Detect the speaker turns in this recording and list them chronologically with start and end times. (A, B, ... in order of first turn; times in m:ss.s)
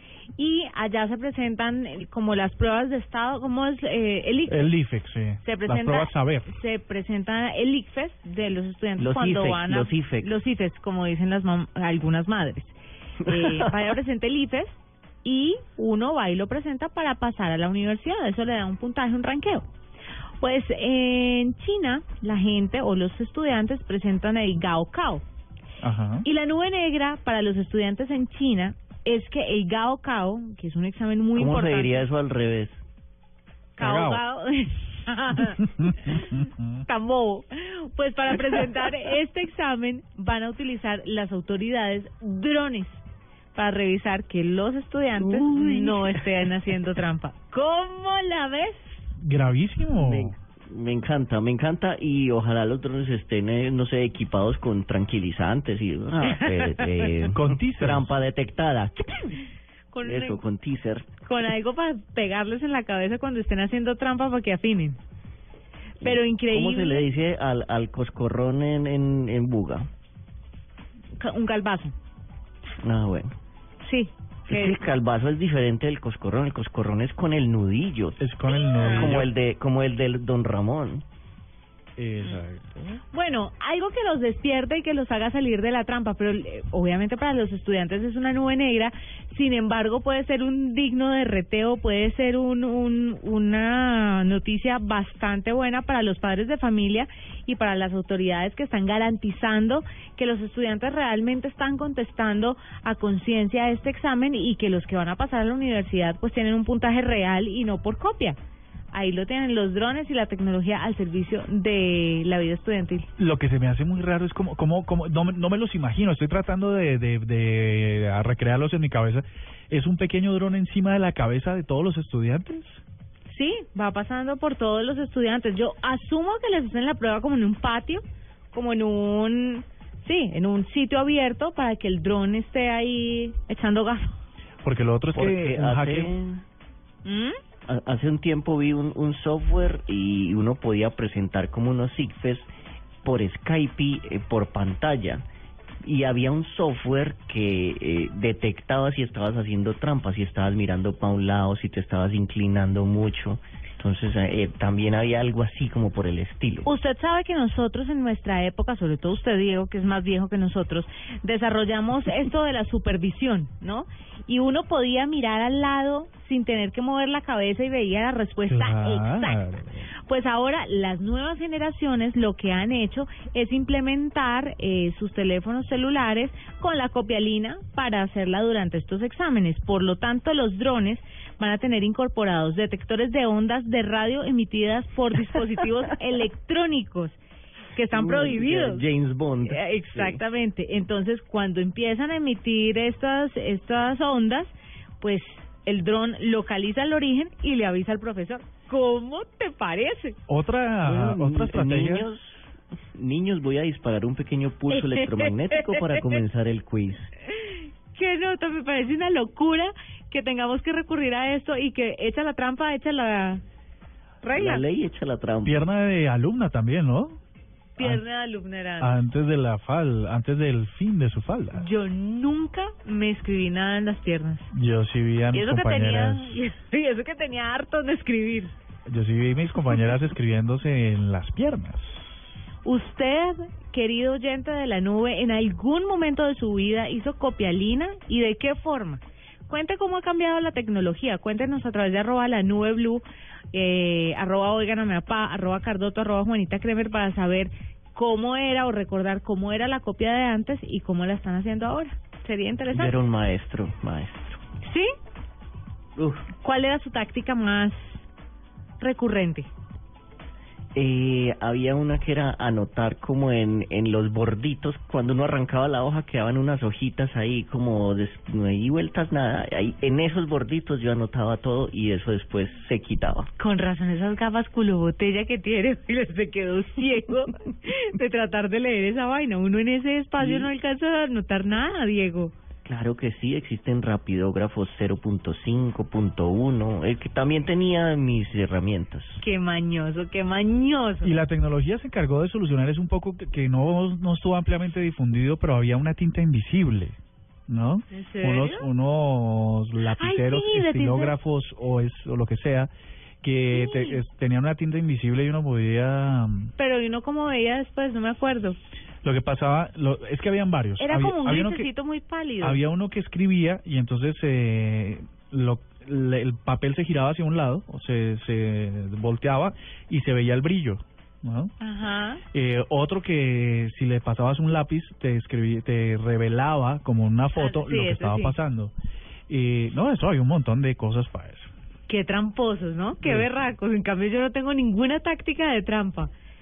0:00.4-0:04.8 A
0:04.5-0:06.5 B
0:05.4-0:19.7 A
0:09.0-0:10.4 C
0:13.2-0:13.7 C
0:20.4-0:25.2 A
0:25.8-0:26.3 B
0:26.2-0:32.1 A
0:31.3-0:32.8 C
0:33.8-0:43.0 A
0:33.8-0:34.2 B
0:35.8-0:36.6 B
0:43.6-0:49.1 A
0:45.2-0:46.5 C
0:49.2-0:50.4 B
0:50.0-0:59.4 C
0:56.2-0:56.9 A
0:57.2-0:58.1 B
0:59.9-1:00.4 A
1:00.0-1:01.1 C
1:01.2-1:05.0 A
1:06.0-1:07.1 A
1:06.0-1:09.9 C
1:11.2-1:11.9 A
1:12.8-1:13.3 C
1:13.8-1:14.8 A
1:14.5-1:18.2 C
1:18.2-1:19.3 B
1:18.7-1:19.1 A
1:18.8-1:21.0 C
1:22.0-1:23.0 B
1:23.1-1:48.4 A
1:48.9-1:53.1 A
1:53.2-2:02.8 B
2:03.3-2:14.2 A
2:14.6-2:16.1 B
2:15.1-2:16.4 C
2:17.0-2:17.4 A
2:17.7-2:22.5 C
2:23.0-2:25.2 C
2:25.8-2:36.7 C
2:36.6-2:49.5 A
2:48.5-2:49.9 B
2:50.1-3:07.2 A
3:07.7-3:08.8 A
3:07.9-3:10.2 C
3:09.5-3:20.2 A
3:20.3-3:22.1 B
3:20.8-3:22.4 C
3:23.0-3:27.1 C
3:24.7-3:25.8 A
3:27.3-3:33.4 A
3:34.2-3:34.6 A
3:34.3-3:35.6 C
3:35.4-3:37.2 B
3:37.8-3:39.0 A
3:38.8-3:41.7 B
3:41.6-3:44.5 A
3:44.5-3:46.4 B
3:45.3-3:48.5 A
3:48.9-3:52.2 B
3:52.6-4:12.9 A
4:12.7-4:14.4 C
4:14.6-4:14.9 A
4:16.0-4:16.3 C
4:16.4-4:18.1 A
4:18.8-4:19.5 A
4:20.8-4:33.3 C
4:33.4-4:42.3 A
4:40.2-4:40.5 C
4:42.6-4:49.2 C
4:49.2-4:51.2 A
4:51.0-4:57.0 B
4:57.5-5:02.7 B
4:57.9-4:58.7 A
5:00.0-5:01.2 A
5:03.2-5:06.5 B
5:03.5-5:04.0 A
5:06.6-5:08.6 A
5:09.0-5:11.7 B
5:10.8-5:12.6 A
5:12.4-5:21.5 B
5:21.6-5:22.2 A
5:22.3-5:28.7 B
5:27.3-5:28.4 A
5:29.3-5:31.5 B
5:31.9-5:36.1 A
5:33.0-5:33.3 B